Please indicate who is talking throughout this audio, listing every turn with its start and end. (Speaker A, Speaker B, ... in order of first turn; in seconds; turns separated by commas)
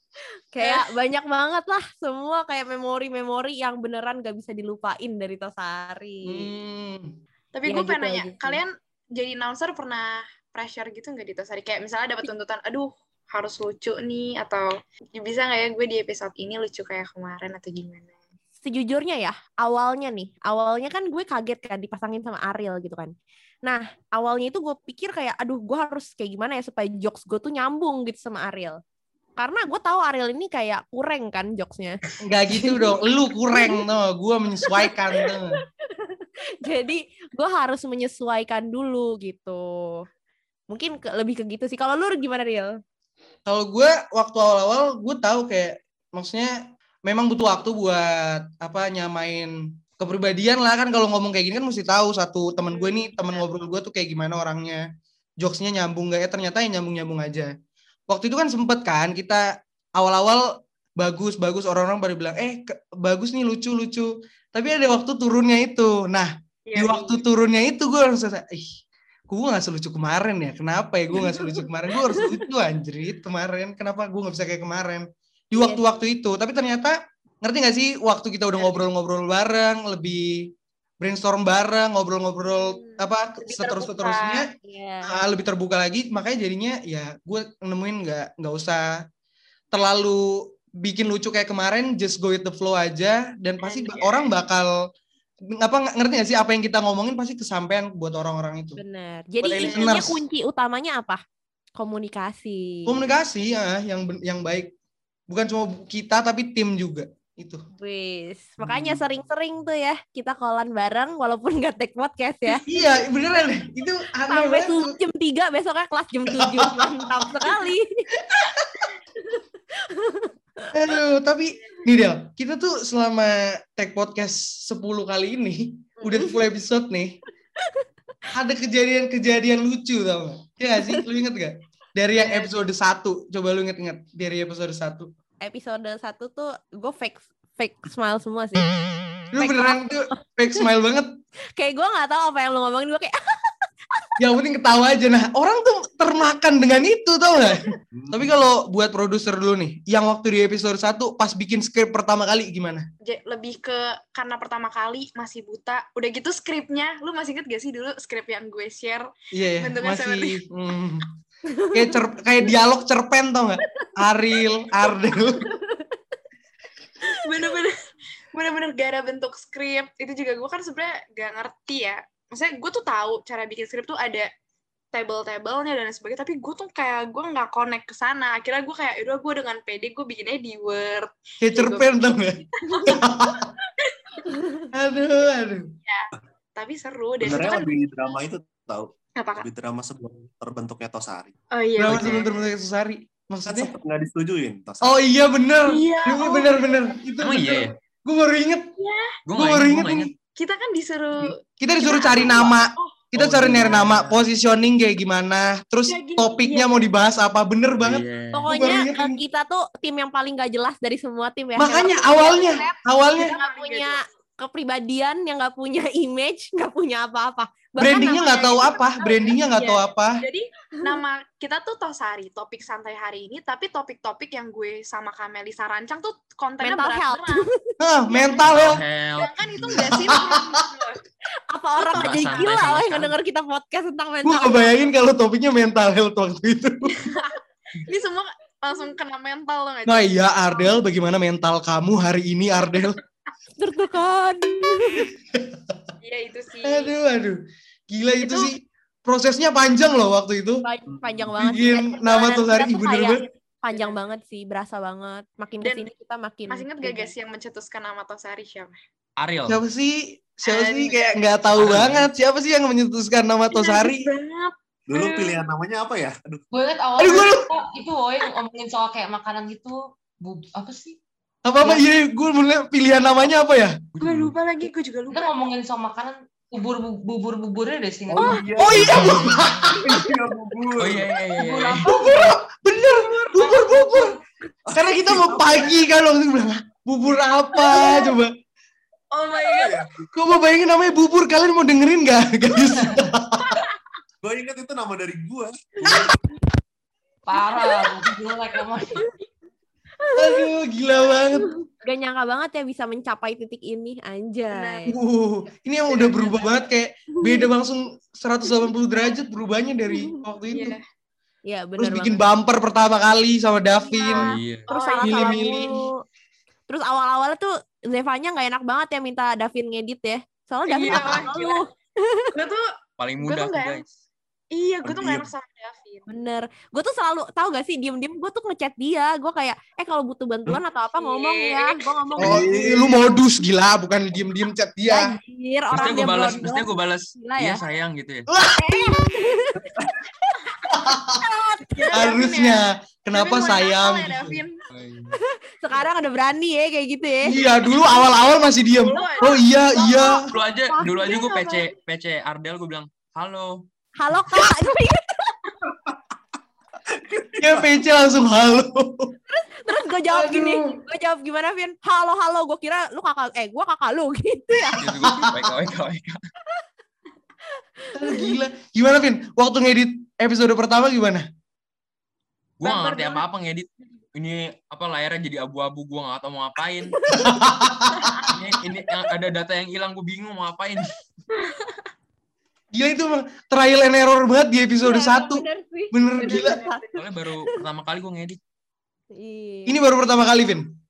Speaker A: 0.5-6.5, Speaker B: 0.6-0.9, Speaker C: 6.2-7.2, Speaker B: 7.5-18.1, Speaker A: 7.7-8.6, Speaker A: 18.6-23.1, Speaker A: 23.6-28.8, Speaker A: 29.4-32.0, Speaker C: 32.2-35.6, Speaker A: 32.5-33.0, Speaker A: 33.5-33.8, Speaker A: 34.7-35.3, Speaker A: 36.0-40.0, Speaker A: 40.7-42.7, Speaker C: 43.5-54.9, Speaker B: 52.6-53.5, Speaker C: 55.4-57.5, Speaker C: 58.1-68.7, Speaker B: 66.7-67.2, Speaker C: 69.3-84.5, Speaker A: 75.5-75.9, Speaker B: 82.5-84.5, Speaker A: 84.6-85.2, Speaker C: 85.0-89.0, Speaker C: 89.7-94.7, Speaker B: 93.6-94.3, Speaker C: 95.5-98.8, Speaker A: 98.8-101.2, Speaker C: 99.4-100.2, Speaker B: 99.6-99.9, Speaker A: 101.8-103.0, Speaker C: 102.9-104.7, Speaker C: 105.3-107.7, Speaker A: 107.8-112.6, Speaker C: 108.7-109.0, Speaker C: 112.6-115.0, Speaker A: 114.3-118.0, Speaker C: 116.3-117.6, Speaker C: 118.3-118.9, Speaker A: 119.4-120.3, Speaker C: 120.7-127.2, Speaker C: 128.3-135.1, Speaker A: 135.4-138.7, Speaker C: 139.3-141.1, Speaker A: 139.4-139.8, Speaker A: 141.6-143.2, Speaker C: 144.2-152.9, Speaker D: 147.9-148.3, Speaker B: 153.0-160.4, Speaker C: 159.3-161.1, Speaker A: 161.5-161.8, Speaker C: 161.7-165.5, Speaker A: 165.6-165.9, Speaker B: 167.2-167.8, Speaker B: 168.3-174.3, Speaker B: 174.9-181.9, Speaker C: 181.4-183.5, Speaker B: 182.6-184.0, Speaker C: 184.7-185.7, Speaker B: 185.8-188.2, Speaker D: 187.2-191.3, Speaker B: 189.2-189.5, Speaker B: 191.5-192.5, Speaker C: 191.8-193.7, Speaker D: 193.5-195.0, Speaker C: 194.8-198.7, Speaker B: 195.7-196.9, Speaker E: 197.2-197.8, Speaker B: 198.8-199.1, Speaker E: 199.3-200.1, Speaker C: 199.3-200.1, Speaker B: 200.4-202.9, Speaker C: 201.6-209.2, Speaker E: 203.2-204.3, Speaker B: 205.9-206.9, Speaker E: 207.8-208.5, Speaker A: 208.3-218.2, Speaker C: 211.6-213.3, Speaker B: 211.9-214.1, Speaker C: 217.8-220.2, Speaker B: 218.0-227.5, Speaker A: 226.6-227.5, Speaker C: 227.8-228.8, Speaker B: 228.1-228.4, Speaker E: 228.4-229.3, Speaker B: 229.2-231.0, Speaker C: 229.6-230.5, Speaker A: 231.5-234.7, Speaker B: 231.8-232.5, Speaker E: 231.9-233.2, Speaker C: 234.2-237.0, Speaker B: 237.0-240.8, Speaker C: 239.9-243.0, Speaker A: 243.6-245.1, Speaker C: 245.3-245.8, Speaker B: 246.0-246.9, Speaker C: 246.7-247.4, Speaker C: 247.9-250.7, Speaker B: 248.2-248.5, Speaker A: 250.6-257.1, Speaker D: 250.9-251.4, Speaker C: 251.4-253.2, Speaker B: 253.7-254.0, Speaker B: 255.6-255.9, Speaker B: 256.5-258.8, Speaker E: 259.2-259.6, Speaker C: 259.5-264.1, Speaker B: 260.4-261.2, Speaker E: 261.6-262.1, Speaker B: 263.5-265.4, Speaker D: 264.9-266.4, Speaker F: 266.5-271.0, Speaker C: 267.0-267.5, Speaker C: 271.4-273.8, Speaker E: 273.9-274.4, Speaker B: 274.0-275.3, Speaker F: 275.1-278.6, Speaker D: 278.1-281.1, Speaker C: 278.6-280.0, Speaker E: 280.8-281.9, Speaker F: 281.4-282.4, Speaker C: 281.8-284.1, Speaker B: 283.2-283.5, Speaker F: 283.4-284.1, Speaker D: 284.7-285.9, Speaker C: 284.8-288.3, Speaker B: 287.6-288.1, Speaker B: 289.1-289.8, Speaker D: 289.4-290.1, Speaker C: 290.1-293.6, Speaker B: 293.5-293.8, Speaker D: 294.2-296.1, Speaker F: 297.3-299.0, Speaker A: 300.1-300.5, Speaker C: 300.2-301.5, Speaker A: 301.8-304.9, Speaker B: 304.5-304.9, Speaker C: 304.9-310.8, Speaker B: 305.9-306.6, Speaker A: 309.9-310.2, Speaker B: 310.5-310.8, Speaker A: 311.5-312.2, Speaker C: 311.8-314.3, Speaker E: 314.1-314.7, Speaker B: 314.7-315.7, Speaker A: 314.7-315.9, Speaker C: 315.0-315.7, Speaker A: 316.7-322.3, Speaker B: 320.7-321.6, Speaker B: 322.3-322.7, Speaker E: 323.0-323.9, Speaker B: 323.2-323.8, Speaker B: 324.5-326.1, Speaker D: 324.8-325.3, Speaker A: 326.1-332.4, Speaker B: 331.0-331.9, Speaker D: 332.2-333.0, Speaker C: 332.2-335.2, Speaker A: 334.9-337.6, Speaker E: 335.7-338.3, Speaker C: 338.3-339.1, Speaker A: 338.6-339.7, Speaker C: 340.7-341.2, Speaker A: 341.2-342.1, Speaker B: 341.7-342.6, Speaker C: 341.9-344.4, Speaker B: 343.1-344.6, Speaker E: 344.7-345.1, Speaker A: 345.2-347.4, Speaker C: 347.2-350.3, Speaker B: 348.8-349.4, Speaker A: 349.8-350.2, Speaker E: 350.3-353.6, Speaker A: 350.7-351.6, Speaker A: 354.0-355.4, Speaker D: 356.9-357.7, Speaker C: 357.4-359.1, Speaker A: 359.3-364.8, Speaker C: 360.1-360.8, Speaker C: 364.5-365.5, Speaker E: 364.8-366.2, Speaker C: 367.9-371.3, Speaker A: 368.0-368.3, Speaker E: 372.6-377.0, Speaker A: 372.7-373.2, Speaker A: 377.0-377.3, Speaker C: 377.1-378.3, Speaker B: 378.0-378.2, Speaker E: 378.3-380.9, Speaker B: 381.3-381.8, Speaker C: 382.7-386.6, Speaker A: 384.8-387.6, Speaker B: 386.2-387.0, Speaker E: 386.9-388.4, Speaker A: 389.1-389.8, Speaker C: 389.7-390.7